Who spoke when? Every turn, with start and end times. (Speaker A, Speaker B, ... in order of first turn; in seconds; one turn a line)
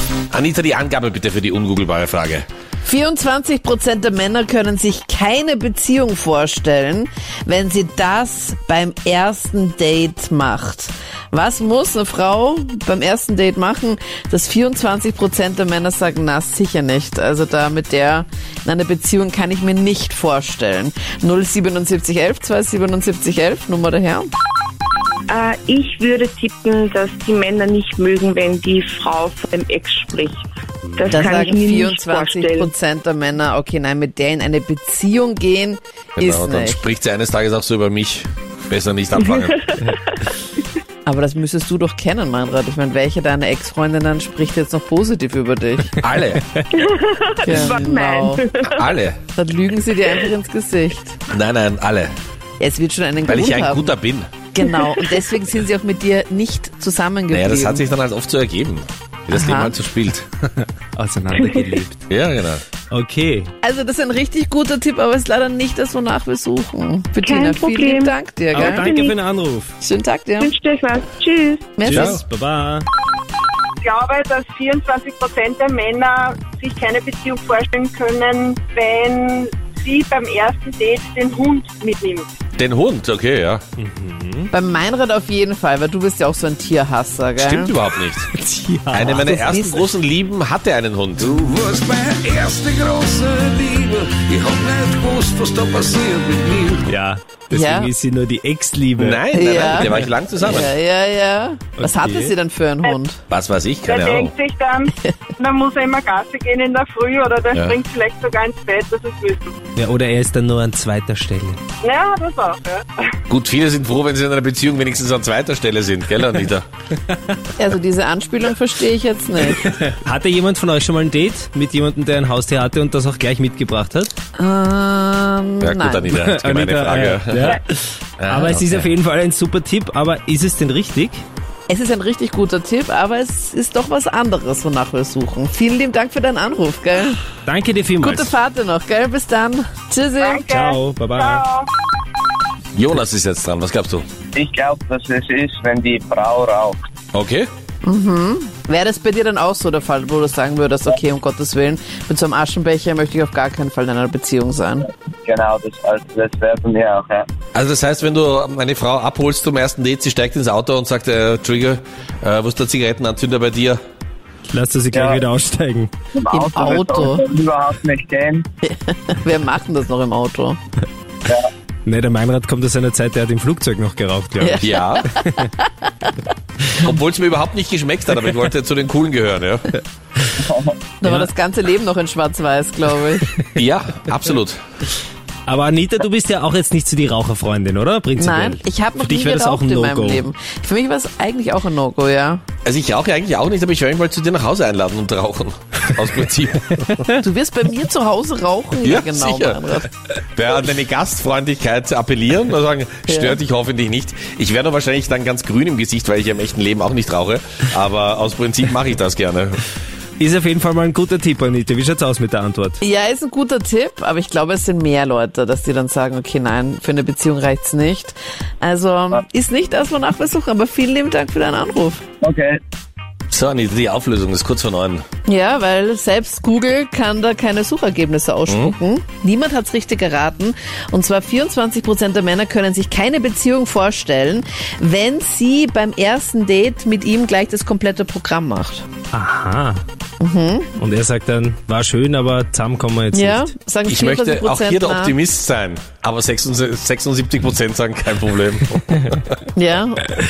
Speaker A: 0.3-2.5
Speaker B: 2.8-24.3
Speaker C: 25.3-30.4
Speaker D: 31.0-31.3
Speaker C: 31.0-32.7
Speaker B: 31.1-36.8
Speaker A: 36.2-39.6
Speaker B: 41.1-46.0
Speaker A: 46.0-46.5
Speaker C: 46.7-48.8
Speaker B: 47.4-48.5
Speaker A: 48.7-49.2
Speaker B: 49.4-51.2
Speaker A: 51.3-52.1
Speaker B: 52.6-53.9
Speaker A: 53.3-54.3
Speaker B: 54.5-57.9
Speaker A: 57.3-60.3
Speaker B: 59.3-59.7
Speaker D: 61.0-62.0
Speaker A: 62.1-62.6
Speaker D: 62.9-63.5
Speaker B: 63.6-68.9
Speaker C: 67.2-68.1
Speaker D: 68.5-69.7
Speaker C: 68.8-69.1
Speaker B: 69.8-70.5
Speaker C: 70.4-71.8
Speaker B: 71.8-72.2
Speaker D: 71.8-72.9
Speaker A: 71.9-72.2
Speaker E: 73.8-82.3
Speaker A: 82.6-83.6
Speaker D: 83.8-84.5
Speaker B: 84.5-87.7
Speaker A: 87.4-88.3
Speaker D: 88.3-89.3
Speaker A: 88.9-91.4
Speaker B: 89.1-89.8
Speaker F: 91.3-96.9
Speaker D: 96.9-100.1
Speaker B: 97.5-97.9
Speaker A: 99.0-100.7
Speaker B: 99.3-103.2
Speaker D: 101.8-102.3
Speaker A: 103.3-104.3
Speaker E: 103.8-109.5
Speaker A: 107.5-107.8
Speaker D: 109.8-111.6
Speaker E: 111.8-112.9
Speaker A: 113.3-116.7
Speaker B: 117.6-119.7
Speaker D: 119.6-124.1
Speaker B: 124.4-126.2
Speaker A: 125.6-127.6
Speaker D: 126.2-131.2
Speaker A: 128.2-128.9
Speaker B: 131.7-137.2
Speaker D: 137.5-138.3
Speaker B: 138.0-140.4
Speaker E: 140.2-141.7
Speaker D: 140.5-141.4
Speaker A: 142.8-144.1
Speaker G: 144.3-146.8
Speaker A: 147.1-147.5
Speaker B: 147.8-154.9
Speaker G: 155.2-157.3
Speaker A: 157.5-163.8
Speaker D: 164.5-165.9
Speaker G: 164.9-165.2
Speaker G: 166.2-168.5
Speaker B: 166.3-167.2
Speaker B: 168.7-170.6
Speaker D: 171.9-175.5
Speaker B: 174.4-175.0
Speaker A: 174.6-175.1
Speaker B: 175.6-176.1
Speaker A: 176.8-179.7
Speaker G: 180.4-180.8
Speaker B: 181.0-183.3
Speaker A: 183.6-184.6
Speaker D: 185.5-190.2
Speaker B: 188.2-192.4
Speaker A: 192.7-196.7
Speaker B: 197.2-199.9
Speaker A: 198.8-199.6
Speaker A: 200.3-209.6
Speaker B: 203.1-203.4
Speaker D: 210.2-212.8
Speaker B: 212.8-222.0
Speaker G: 222.2-222.6
Speaker A: 223.3-225.0
Speaker B: 225.3-238.8
Speaker A: 228.5-228.8
Speaker D: 239.1-239.8
Speaker B: 240.2-240.7
Speaker D: 240.8-243.5
Speaker B: 243.1-245.1
Speaker A: 243.9-249.2
Speaker B: 249.6-250.0